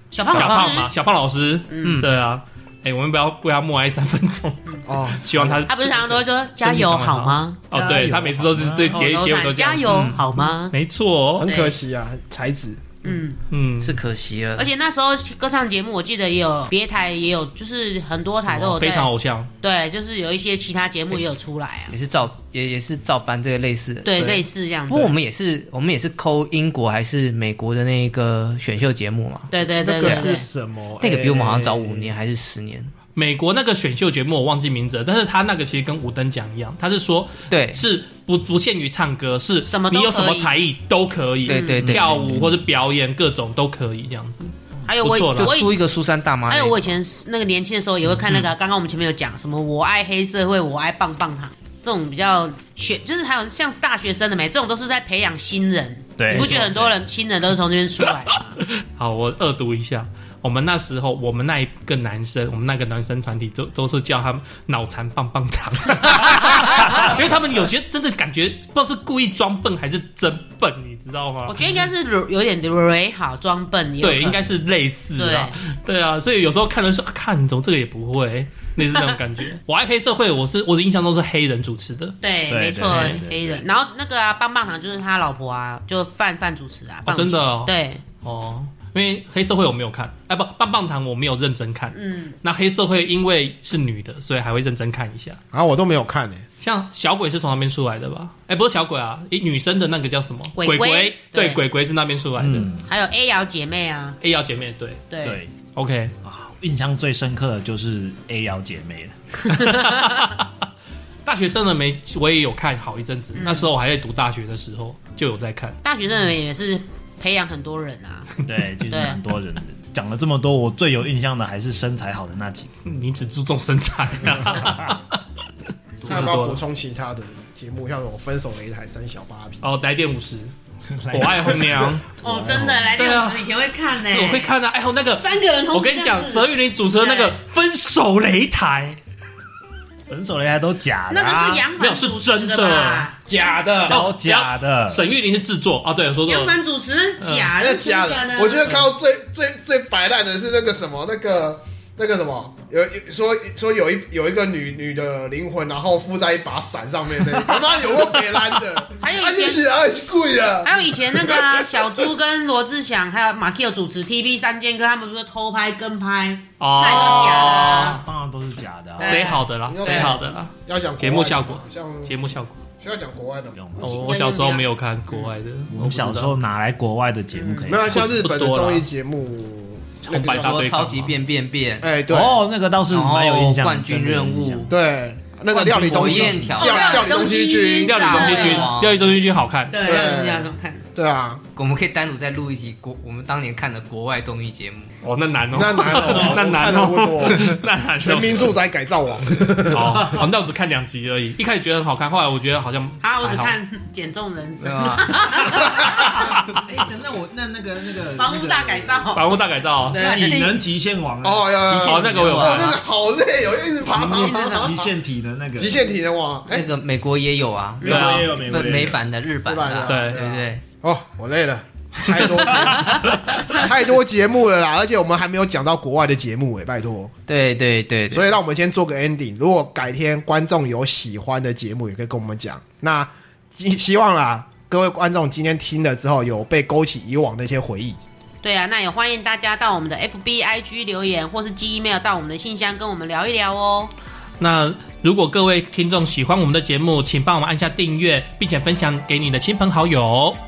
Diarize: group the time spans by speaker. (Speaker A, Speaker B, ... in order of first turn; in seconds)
Speaker A: 0.1-0.9, 1.7-2.0, 5.7-7.6, 8.9-10.7, 11.4-11.8, 13.0-13.4, 14.6-19.1, 19.6-21.9, 24.0-25.1, 29.5-30.4, 39.6-40.5, 41.5-42.0, 44.9-45.8, 46.5-58.6, 66.7-67.0, 71.5-74.4, 75.2-75.6, 82.2-88.0, 91.9-92.4, 100.5-101.6, 102.8-104.2, 105.1-105.4, 109.6-109.8, 113.3-113.7, 115.8-118.3, 118.8-119.2, 132.2-134.5, 135.1-137.3, 141.1-143.2, 146.2-148.8, 159.0-159.6, 160.6-168.0, 169.0-170.2, 173.8-175.3, 177.3-177.7, 186.5-188.7, 189.7-190.8, 203.0-206.1, 208.2-210.5, 214.1-214.7, 238.4-243.9
Speaker B: 0.3-0.8, 4.9-5.6, 11.4-13.0, 29.8-32.1, 95.5-96.4, 126.0-129.6, 143.3-144.0, 147.5-162.0, 166.8-167.9, 169.6-172.2, 172.8-173.6, 177.7-180.7, 181.8-182.4, 184.7-188.2, 189.8-191.4, 195.5-200.2, 211.2-214.7, 215.6-216.7, 219.4-227.1, 228.1-238.0
Speaker C: 0.3-11.5, 13.5-14.0, 18.5-19.5, 24.2-24.4, 33.1-45.5, 56.3-56.6, 58.8-71.7, 74.0-82.2, 82.9-83.2, 87.0-95.4, 96.6-102.7, 104.2-105.0, 105.8-106.1, 109.5-110.5, 111.2-115.8, 122.8-125.2, 126.0-126.6, 129.6-130.5, 131.1-132.0, 133.0-133.5, 134.1-139.0, 141.8-143.1, 143.8-146.6, 147.2-147.5, 166.6-168.0, 169.0-172.6, 173.8-176.3, 177.9-178.9, 180.1-181.2, 187.8-189.8, 195.0-198.6, 199.7-203.6, 209.1-210.0, 211.8-212.8, 217.8-218.3, 219.8-220.2, 244.4-250.4
Speaker D: 1.8-2.1, 9.8-10.2, 13.8-14.7, 21.9-24.2, 24.9-29.5, 30.0-30.3, 31.0-32.9, 37.5-37.8, 41.5-42.4, 45.3-46.9, 180.1-181.9, 182.9-184.7, 185.5-187.2, 187.9-189.1, 191.6-194.9, 204.6-205.4, 210.2-210.5, 211.7-212.8, 216.5-220.6, 227.3-228.3
Speaker E: 7.7-9.1, 42.0-42.6, 56.2-56.9, 82.5-83.5, 102.4-102.9, 105.2-105.5, 106.2-109.4, 118.4-122.7, 124.3-124.9, 130.9-133.0, 140.1-141.6, 143.9-145.1, 167.7-169.3, 173.5-174.0, 175.7-178.1, 182.1-184.7, 185.8-186.6, 205.6-209.1, 209.9-211.6, 213.9-215.8, 217.8-219.0